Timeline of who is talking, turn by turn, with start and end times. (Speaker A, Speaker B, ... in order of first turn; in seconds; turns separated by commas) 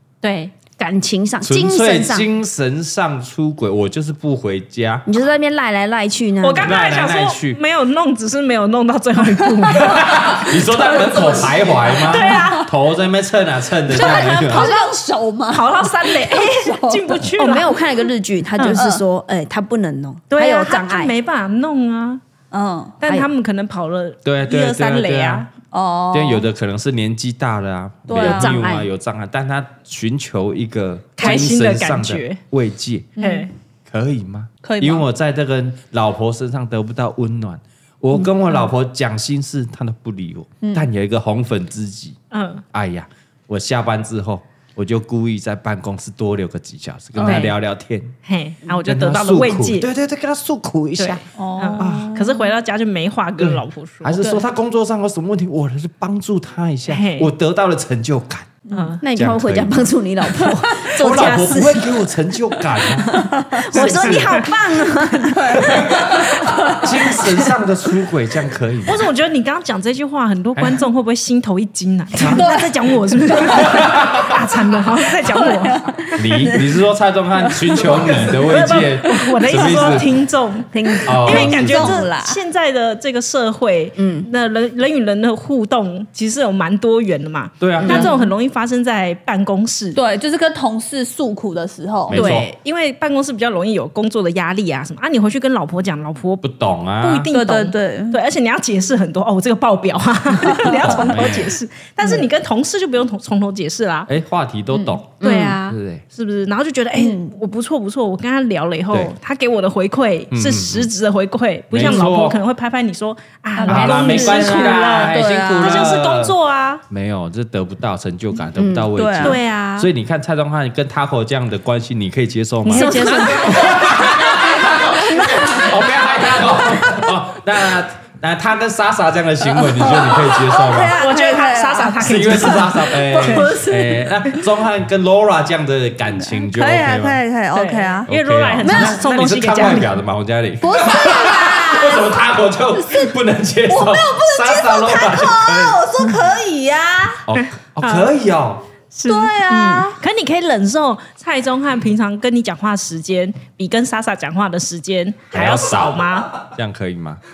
Speaker A: 0.2-0.5, Speaker B: 0.8-2.3, Speaker C: 1.4-5.1, Speaker B: 5.0-6.8, Speaker A: 6.4-10.4, Speaker C: 6.6-7.6, Speaker C: 9.7-14.7, Speaker A: 11.0-11.4, Speaker A: 11.9-12.7, Speaker D: 12.0-12.6, Speaker D: 13.9-17.3, Speaker A: 13.9-14.9, Speaker A: 15.5-17.8, Speaker B: 17.3-21.1, Speaker A: 18.6-18.9, Speaker D: 18.7-19.0, Speaker A: 20.3-22.2, Speaker D: 22.5-22.9, Speaker A: 23.0-25.5, Speaker B: 23.0-23.3, Speaker C: 24.2-25.4, Speaker D: 25.7-26.4, Speaker C: 26.1-33.1, Speaker D: 28.1-28.6, Speaker B: 28.1-28.9, Speaker A: 31.2-32.4, Speaker D: 33.2-33.5, Speaker A: 33.2-33.5, Speaker C: 33.9-42.2, Speaker D: 34.6-35.0, Speaker D: 40.6-40.9, Speaker A: 42.3-42.6, Speaker C: 42.7-48.1, Speaker A: 47.2-47.5, Speaker A: 48.2-49.9, Speaker C: 48.8-51.2, Speaker A: 51.0-54.1, Speaker D: 51.3-52.4, Speaker C: 51.8-52.1, Speaker C: 53.4-58.6, Speaker A: 56.9-57.3, Speaker D: 58.6-59.0, Speaker A: 58.7-59.0, Speaker B: 59.0-61.9, Speaker C: 59.1-59.8, Speaker A: 60.8-61.6, Speaker C: 61.0-63.1, Speaker B: 62.9-65.7, Speaker A: 63.6-65.4, Speaker C: 63.7-64.2, Speaker D: 65.3-66.8, Speaker C: 66.8-69.0, Speaker A: 68.8-75.9, Speaker C: 70.5-70.8, Speaker C: 72.2-72.4, Speaker D: 72.2-72.7, Speaker D: 73.2-73.8, Speaker C: 73.5-74.3, Speaker D: 75.3-76.7, Speaker C: 76.2-80.1, Speaker A: 78.3-90.0, Speaker B: 80.7-81.4, Speaker C: 81.0-82.0, Speaker D: 81.2-82.4, Speaker B: 84.0-84.3, Speaker C: 87.6-88.1, Speaker B: 87.8-88.1, Speaker D: 87.8-88.1, Speaker D: 89.9-92.3, Speaker C: 92.1-92.5, Speaker A: 92.1-96.4, Speaker C: 96.4-97.3, Speaker A: 97.0-104.1, Speaker D: 97.3-98.2, Speaker D: 100.5-101.1, Speaker C: 100.8-101.5, Speaker C: 104.1-106.0, Speaker D: 104.7-105.2, Speaker B: 105.2-105.6, Speaker A: 105.2-116.8, Speaker D: 107.0-107.3, Speaker C: 110.3-110.9, Speaker C: 111.7-112.4, Speaker D: 113.6-115.9, Speaker C: 113.7-116.3, Speaker C: 116.9-131.0, Speaker B: 118.5-118.9, Speaker D: 118.9-119.4, Speaker A: 119.2-119.9, Speaker A: 122.6-124.1, Speaker D: 122.8-125.7, Speaker D: 129.5-133.8, Speaker A: 130.9-133.9, Speaker C: 132.0-137.2, Speaker D: 136.2-138.1, Speaker A: 137.5-140.0, Speaker C: 138.1-145.8, Speaker D: 138.6-139.0, Speaker D: 140.6-143.2, Speaker D: 143.7-147.2, Speaker C: 147.2-148.6, Speaker A: 147.4-148.1, Speaker A: 148.9-156.3, Speaker D: 149.1-149.9, Speaker B: 149.5-149.8, Speaker C: 155.3-157.2